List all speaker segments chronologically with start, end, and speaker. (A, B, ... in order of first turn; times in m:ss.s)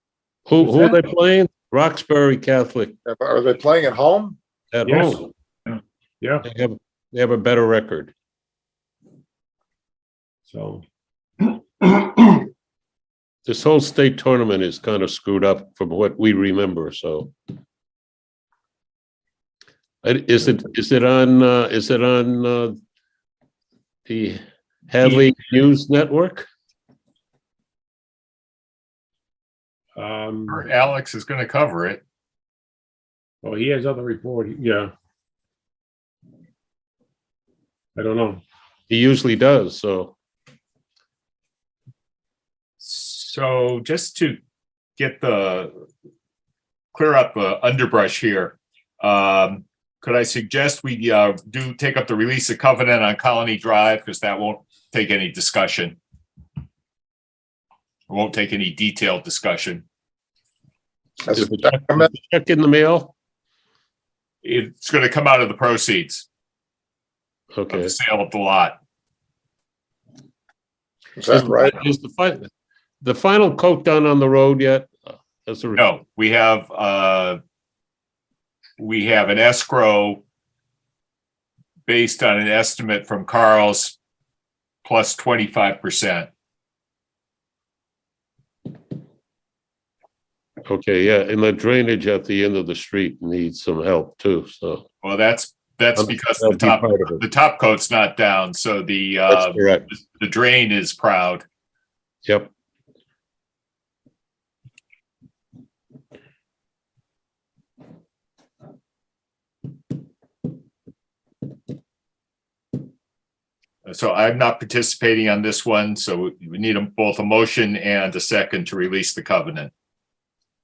0:00.5-0:03.0 A
0:00.6-0:01.1 B
0:03.1-0:04.4 C
0:04.7-0:05.3 A
0:04.9-0:05.3 B
0:06.2-0:06.5 B
0:06.4-0:08.1 A
0:10.5-0:10.8 B
0:13.5-0:17.3 A
0:20.0-0:22.8 A
0:24.1-0:26.5 A
0:30.0-0:30.6 B
0:30.5-0:32.0 D
0:33.4-0:34.9 B
0:38.0-0:38.4 B
0:38.9-0:40.2 A
0:42.8-0:44.4 D
0:45.0-0:45.7 D
0:46.9-0:56.0 D
0:58.1-0:59.8 D
1:01.3-1:03.1 A
1:01.3-1:02.1 C
1:04.4-1:06.3 D
1:07.5-1:07.9 A
1:07.7-1:08.8 D
1:11.2-1:11.8 C
1:11.3-1:12.5 A
1:13.0-1:15.8 A
1:15.8-1:17.4 D
1:18.8-1:20.2 D
1:21.9-1:24.0 D
1:24.8-1:26.3 D
1:30.6-1:34.8 A
1:35.0-1:41.4 D
1:36.0-1:37.2 A
1:39.3-1:39.8 A
1:42.2-1:42.5 A
1:53.9-1:59.7 D